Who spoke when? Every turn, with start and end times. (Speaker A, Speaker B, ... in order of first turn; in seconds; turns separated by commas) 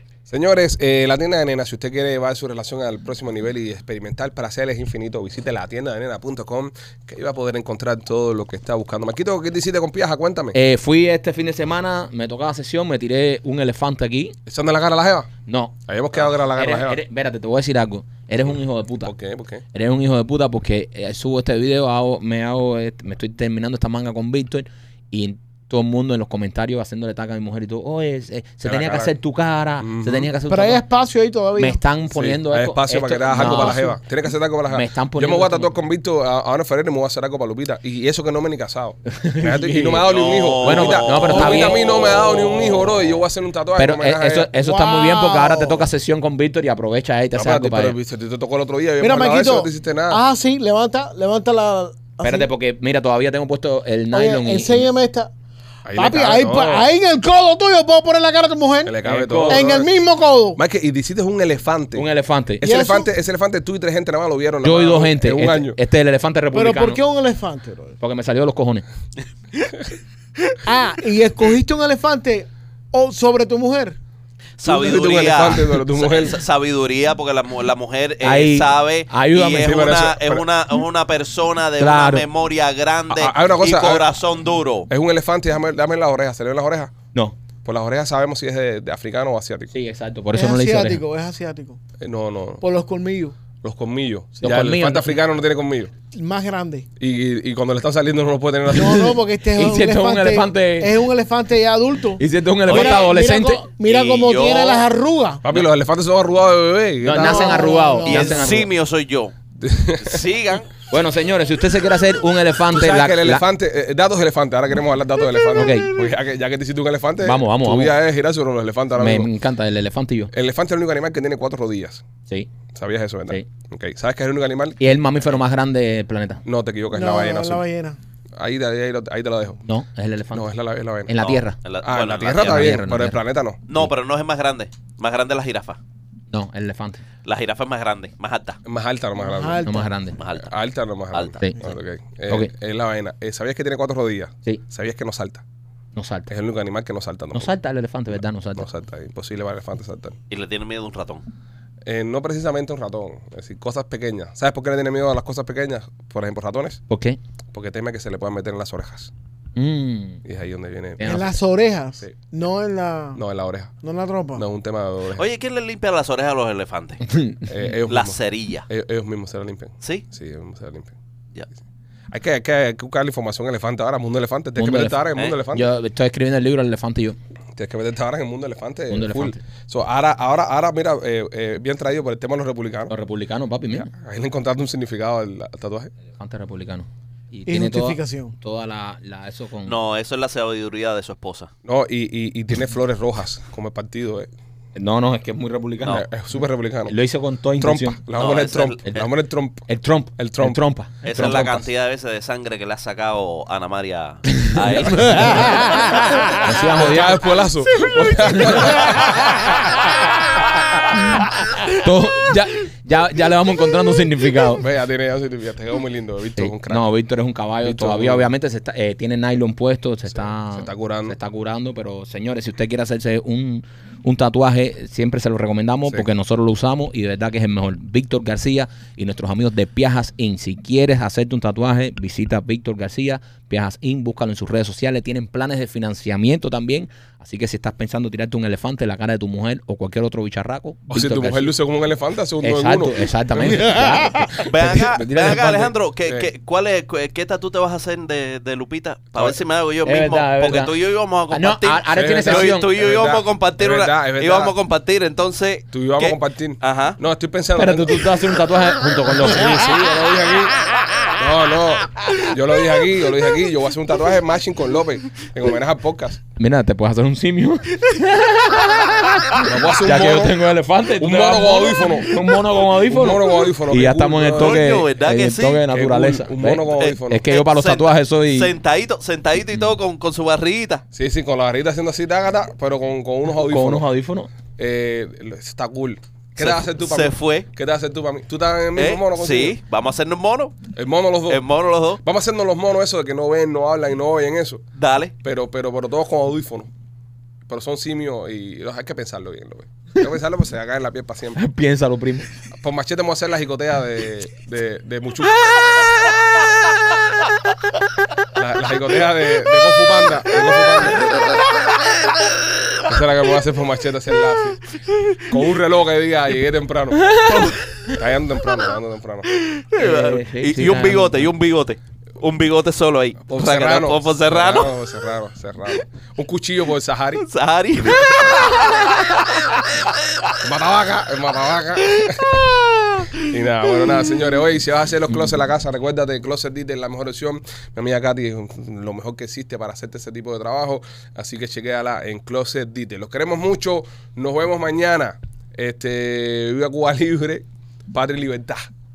Speaker A: 0.3-10.6, Speaker B: 10.5-14.3, Speaker A: 14.4-15.3, Speaker B: 15.4-19.1, Speaker A: 15.9-17.0, Speaker A: 18.4-19.6, Speaker B: 19.7-30.8, Speaker A: 28.6-29.1, Speaker A: 29.8-30.3, Speaker C: 30.5-31.8, Speaker B: 31.6-34.0, Speaker A: 32.1-44.5, Speaker C: 33.4-33.9, Speaker B: 34.7-35.7, Speaker B: 39.1-40.1, Speaker D: 40.0-42.7, Speaker B: 40.6-42.2, Speaker C: 41.3-41.7, Speaker B: 42.8-43.1, Speaker B: 43.7-48.0, Speaker C: 44.5-45.9, Speaker A: 47.3-50.2, Speaker C: 49.0-52.5, Speaker B: 52.2-54.9, Speaker C: 54.1-55.3, Speaker A: 55.9-56.9, Speaker C: 56.0-60.6, Speaker A: 58.8-59.9, Speaker B: 59.0-59.6, Speaker A: 60.5-62.0, Speaker B: 61.9-62.6, Speaker A: 62.6-65.8, Speaker C: 62.6-63.1, Speaker B: 64.6-67.0, Speaker C: 66.5-68.0, Speaker B: 68.0-68.8, Speaker C: 70.6-74.0, Speaker D: 74.6-84.9, Speaker A: 74.6-76.3, Speaker B: 78.2-79.8, Speaker A: 79.6-80.5, Speaker B: 81.8-82.2, Speaker A: 83.1-84.0, Speaker A: 84.9-86.9, Speaker A: 87.6-89.7, Speaker B: 89.7-91.0, Speaker C: 90.3-91.8, Speaker A: 92.0-92.6, Speaker C: 92.6-93.3, Speaker A: 93.6-95.9, Speaker B: 94.4-95.2, Speaker C: 96.1-96.9, Speaker A: 97.0-99.2, Speaker C: 98.7-105.4, Speaker B: 98.8-101.0, Speaker B: 102.2-103.6, Speaker D: 102.7-103.1, Speaker D: 103.8-104.8, Speaker A: 105.4-107.8, Speaker B: 107.0-108.7, Speaker C: 107.1-108.6, Speaker D: 108.0-109.3, Speaker A: 109.6-110.2, Speaker D: 110.0-110.7, Speaker B: 110.9-113.4, Speaker A: 112.7-119.3, Speaker B: 115.5-116.1, Speaker B: 117.2-117.9, Speaker B: 119.0-120.3, Speaker A: 120.3-122.0, Speaker A: 122.7-124.8, Speaker B: 124.8-126.4, Speaker A: 126.4-127.6, Speaker C: 126.9-128.0, Speaker A: 128.4-129.6, Speaker B: 129.6-130.5, Speaker A: 130.3-131.2, Speaker B: 131.1-131.6, Speaker D: 131.2-132.8, Speaker A: 131.8-133.6, Speaker B: 132.3-133.2, Speaker D: 133.7-135.8, Speaker B: 136.3-137.0, Speaker D: 137.2-138.6, Speaker A: 138.6-139.6, Speaker C: 139.2-139.9, Speaker B: 139.6-140.2, Speaker D: 140.2-140.5, Speaker A: 140.3-145.4, Speaker D: 141.1-141.4, Speaker B: 145.9-146.3, Speaker A: 146.3-147.5, Speaker B: 147.3-148.7, Speaker A: 148.5-150.2, Speaker D: 150.3-151.2, Speaker A: 151.8-156.8, Speaker B: 156.9-157.2, Speaker A: 157.5-159.1, Speaker B: 159.6-160.2, Speaker A: 160.2-161.2, Speaker B: 161.0-161.3, Speaker C: 161.0-163.2, Speaker A: 163.1-163.7, Speaker C: 163.8-164.4, Speaker A: 164.3-165.2, Speaker D: 165.2-167.0, Speaker B: 167.0-167.5, Speaker A: 167.5-170.9, Speaker D: 167.9-168.7, Speaker A: 172.1-175.7, Speaker B: 174.6-175.0, Speaker B: 175.5-177.2, Speaker A: 177.6-182.9, Speaker B: 178.9-179.4, Speaker B: 182.9-183.9, Speaker A: 183.7-185.9, Speaker B: 186.1-189.8, Speaker C: 187.5-188.3, Speaker D: 189.7-191.5, Speaker A: 191.6-194.3, Speaker B: 194.7-196.1, Speaker A: 195.9-196.9, Speaker B: 196.9-198.0, Speaker A: 197.6-199.7, Speaker D: 198.1-199.1, Speaker B: 199.7-201.6, Speaker A: 200.2-200.6, Speaker D: 201.0-206.4, Speaker A: 201.1-201.6, Speaker B: 204.4-205.6, Speaker C: 205.2-206.3, Speaker B: 206.4-207.2, Speaker A: 206.6-209.8, Speaker B: 208.3-208.9, Speaker B: 210.9-214.7, Speaker A: 214.6-216.8, Speaker B: 216.4-241.5, Speaker A: 217.6-218.3, Speaker A: 220.1-221.2, Speaker A: 240.9-243.8, Speaker B: 242.4-245.7, Speaker C: 243.7-244.2, Speaker D: 244.4-257.0, Speaker B: 249.8-250.7, Speaker B: 251.3-252.7, Speaker A: 251.9-254.5, Speaker A: 255.7-258.4, Speaker B: 257.6-260.2, Speaker A: 259.2-260.5, Speaker A: 261.1-266.2, Speaker B: 266.4-278.5, Speaker A: 269.4-270.4, Speaker A: 271.0-272.1, Speaker A: 272.9-274.7, Speaker D: 274.4-275.6, Speaker A: 275.7-277.2, Speaker D: 276.8-280.8, Speaker A: 280.9-283.9, Speaker B: 283.3-284.3, Speaker A: 284.6-289.6, Speaker D: 286.4-287.5, Speaker D: 288.8-290.6, Speaker A: 290.7-291.4, Speaker D: 291.3-292.0, Speaker A: 292.0-294.6, Speaker D: 294.8-295.1, Speaker A: 295.2-296.7, Speaker A: 297.5-301.4, Speaker B: 301.4-302.3, Speaker A: 302.6-305.7, Speaker A: 308.3-311.2, Speaker A: 312.9-314.6, Speaker A: 315.3-317.2, Speaker B: 317.1-317.5, Speaker D: 317.3-317.6, Speaker A: 317.9-319.3, Speaker D: 319.3-324.7, Speaker B: 319.8-321.3, Speaker A: 323.2-327.2, Speaker D: 327.2-329.6, Speaker A: 327.8-328.4, Speaker A: 330.4-332.4, Speaker D: 332.1-333.1, Speaker A: 333.2-348.7